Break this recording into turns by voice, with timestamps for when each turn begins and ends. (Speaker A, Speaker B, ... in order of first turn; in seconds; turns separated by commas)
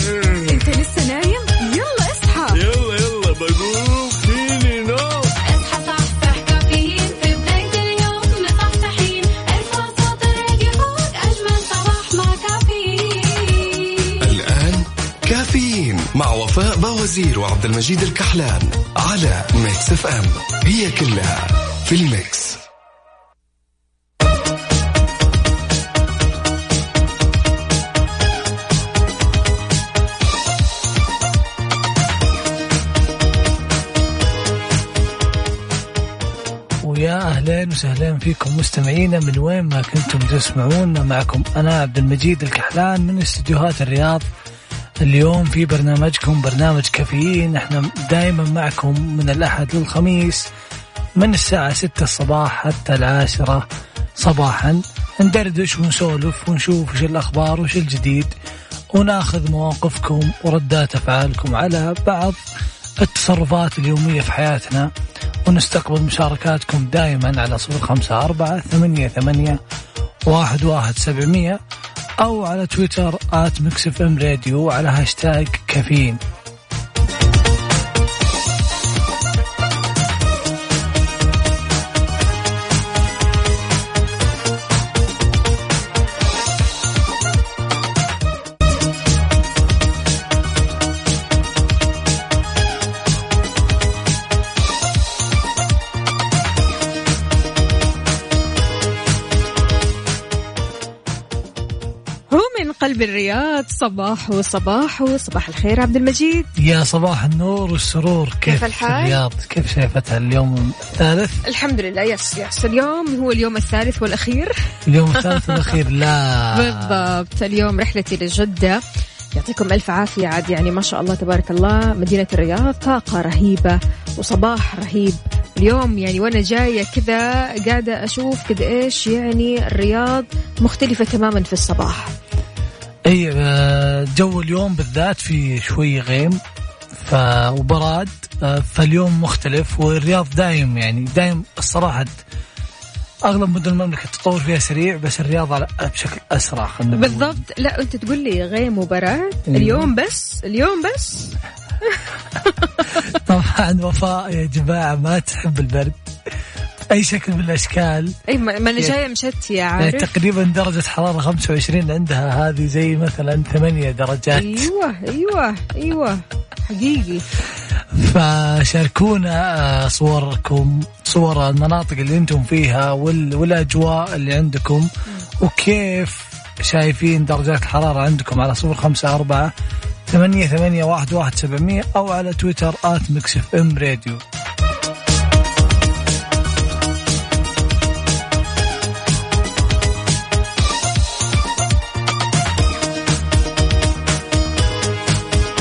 Speaker A: 0.5-2.6, Speaker B: 2.5-5.3, Speaker C: 5.5-14.2, Speaker D: 14.2-22.6, Speaker E: 36.8-44.3, Speaker E: 45.0-50.5, Speaker E: 51.2-53.6, Speaker E: 54.2-58.3, Speaker E: 58.9-62.4, Speaker E: 63.0-64.9, Speaker E: 65.5-69.6, Speaker E: 70.3-71.6, Speaker E: 72.2-76.2, Speaker A: 102.3-106.5, Speaker E: 106.5-111.4, Speaker A: 108.5-109.2, Speaker A: 111.4-114.5, Speaker E: 114.9-116.9, Speaker A: 115.2-115.8, Speaker A: 116.5-118.8, Speaker A: 119.3-132.1, Speaker E: 133.1-136.4, Speaker E: 136.9-142.2, Speaker E: 143.3-147.4, Speaker A: 146.9-151.4, Speaker E: 149.5-149.9, Speaker E: 153.1-156.0, Speaker E: 156.9-158.2, Speaker A: 158.3-160.1, Speaker E: 159.8-164.7, Speaker A: 164.3-167.3, Speaker E: 167.9-179.5, Speaker E: 180.1-184.2